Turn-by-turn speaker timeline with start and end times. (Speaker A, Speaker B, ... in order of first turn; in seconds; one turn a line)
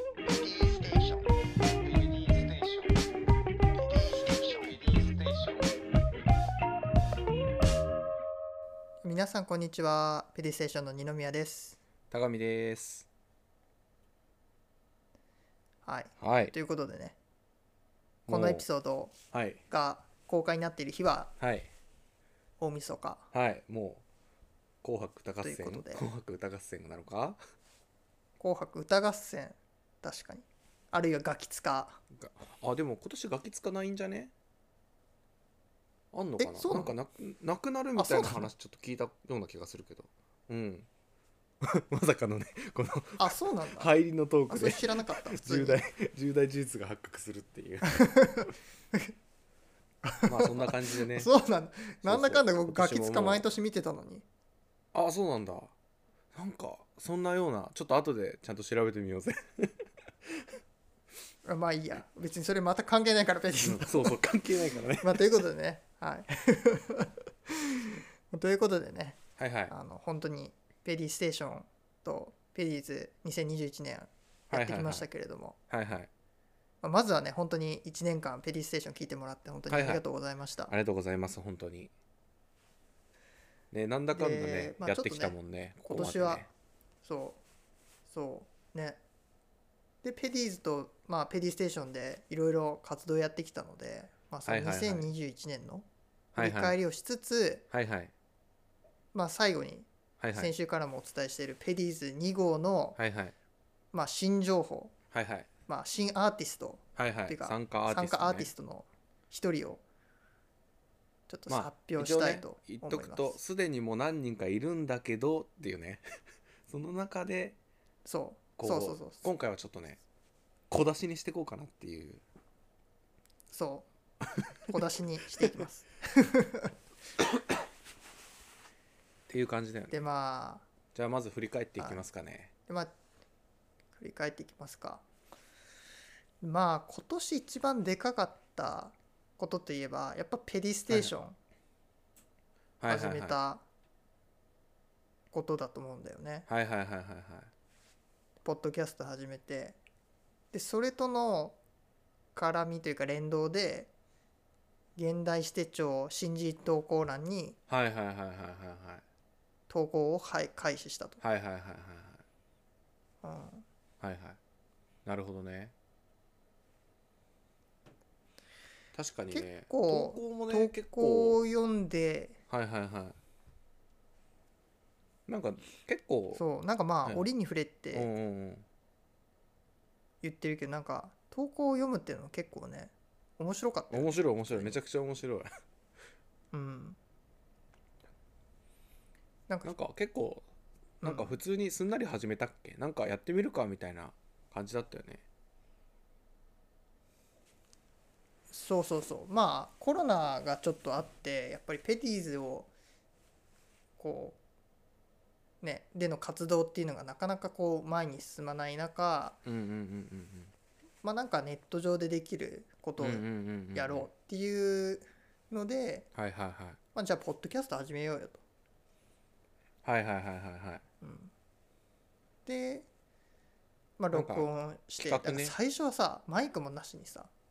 Speaker A: 0.3-3.0
Speaker A: 3.8-5.7
Speaker B: 9.0-11.8
Speaker A: 12.1-13.1
Speaker B: 15.8-17.1
Speaker A: 16.2-16.5
Speaker A: 18.3-18.6
Speaker B: 18.3-19.1
Speaker A: 19.3-19.6
Speaker B: 19.7-21.3
Speaker A: 21.4-21.7
Speaker B: 22.6-23.3
Speaker A: 23.3-24.0
Speaker A: 24.8-27.4
Speaker B: 25.4-26.1
Speaker B: 28.4-32.0
Speaker A: 32.1-34.3
Speaker A: 36.1-40.9
Speaker B: 36.4-36.9
Speaker B: 38.0-38.5
Speaker A: 41.6-48.1
Speaker B: 43.2-43.9
Speaker B: 44.5-45.8
Speaker B: 47.8-49.1
Speaker B: 50.0-54.2
Speaker A: 50.2-51.3
Speaker A: 52.0-53.4
Speaker A: 54.9-55.7
Speaker A: 56.3-59.7
Speaker B: 61.4-64.3
Speaker A: 63.6-65.2
Speaker B: 65.0-75.6
Speaker A: 69.4-69.7
Speaker A: 74.5-75.1
Speaker A: 75.7-76.1
Speaker B: 76.8-80.7
Speaker A: 79.7-80.0
Speaker A: 80.7-81.9
Speaker A: 83.7-86.5
Speaker B: 84.1-86.5
Speaker B: 87.0-87.4
Speaker B: 88.1-89.0
Speaker B: 90.0-97.6
Speaker A: 94.5-95.1
Speaker A: 96.3-96.8
Speaker A: 97.7-98.1
Speaker B: 99.1-103.0
Speaker A: 100.2-100.5
Speaker A: 103.0-103.3
Speaker B: 103.9-104.9
Speaker A: 105.1-105.5
Speaker B: 105.7-109.8
Speaker A: 107.0-108.5
Speaker B: 111.3-113.4
Speaker A: 111.5-116.0
Speaker A: 116.7-117.6
Speaker B: 118.0-119.3
Speaker A: 118.6-120.0
Speaker A: 120.7-122.2
Speaker B: 123.5-123.9
Speaker B: 124.7-126.7
Speaker A: 125.4-125.6
Speaker A: 129.3-130.0
Speaker B: 129.9-130.7
Speaker A: 130.9-132.5
Speaker B: 131.8-132.0
Speaker B: 132.7-132.9
Speaker B: 133.9-135.0
Speaker B: 136.4-141.4
Speaker A: 142.8-143.4
Speaker B: 142.9-143.6
Speaker B: 145.3-146.5
Speaker A: 146.5-147.5
Speaker B: 148.4-149.8
Speaker B: 150.5-151.6
Speaker B: 152.3-153.9
Speaker B: 154.9-157.6
Speaker A: 157.7-159.0
Speaker B: 159.7-161.2
Speaker A: 161.2-162.2
Speaker B: 163.2-163.6
Speaker A: 164.0-164.4
Speaker A: 165.0-165.7
Speaker A: 168.9-171.4
Speaker B: 169.3-172.4
Speaker A: 172.5-173.2
Speaker A: 175.3-176.4
Speaker B: 176.3-178.1
Speaker A: 177.9-178.6
Speaker B: 180.2-184.8
Speaker A: 183.9-185.5
Speaker B: 186.5-187.0
Speaker A: 189.6-190.4
Speaker B: 191.0-191.4
Speaker A: 191.0-195.2
Speaker B: 198.5-202.7
Speaker B: 204.0-204.4
Speaker B: 205.6-209.4
Speaker A: 209.4-210.5
Speaker B: 211.0-216.1
Speaker A: 213.0-214.1
Speaker A: 216.1-216.8
Speaker B: 216.9-218.4
Speaker A: 219.8-220.8
Speaker B: 221.0-221.3
Speaker B: 222.4-222.9
Speaker B: 224.0-227.3
Speaker A: 224.1-224.5
Speaker A: 225.0-225.5